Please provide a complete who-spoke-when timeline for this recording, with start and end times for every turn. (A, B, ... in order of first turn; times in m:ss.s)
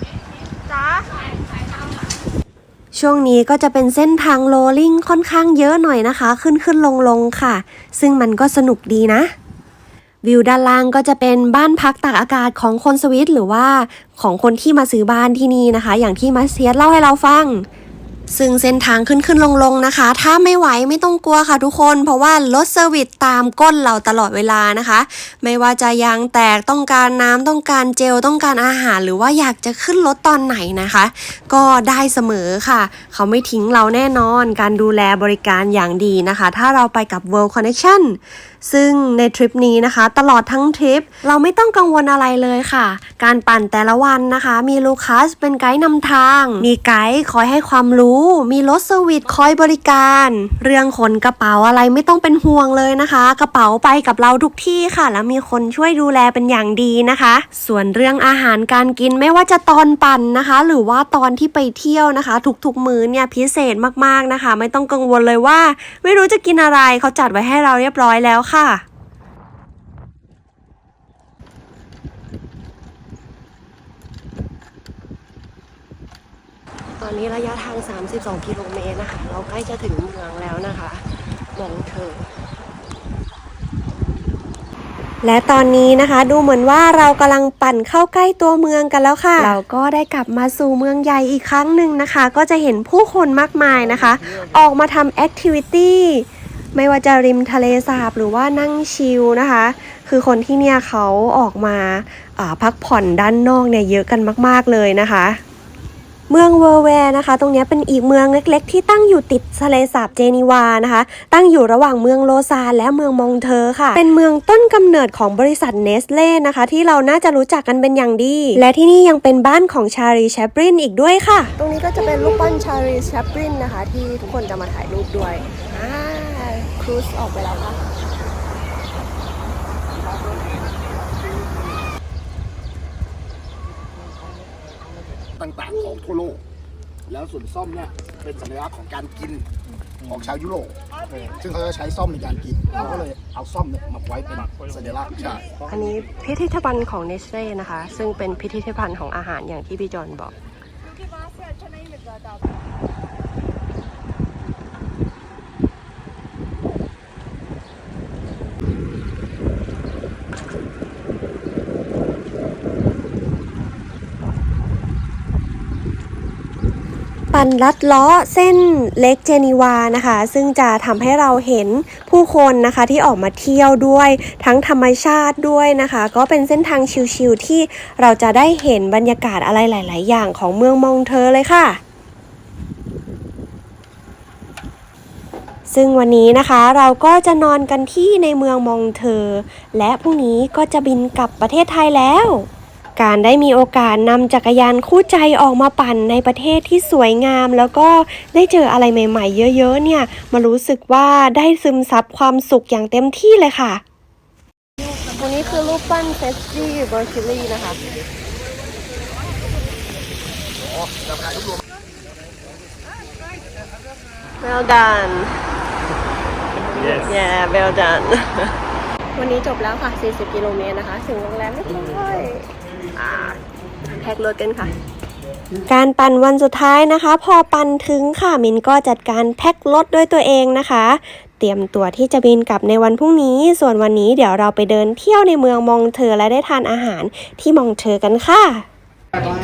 0:02.9-0:09.3 A
0:10.2-0:17.7 A
0:18.3-1:08.8 A
1:17.0-1:22.3 B
1:25.2-1:45.4 A
1:46.3-2:01.5 A
2:01.6-2:07.8 B
2:15.4-2:16.4 C
2:17.1-2:19.4 C
2:20.5-2:20.7 C
2:21.4-2:25.4 C
2:25.6-2:30.3 B
2:47.3-3:01.8 A
3:05.7-3:23.8 A
3:25.1-3:27.8 B
3:34.4-3:35.4 B
3:36.7-3:38.6 B
3:39.1-3:44.7 B
3:45.6-3:58.6 A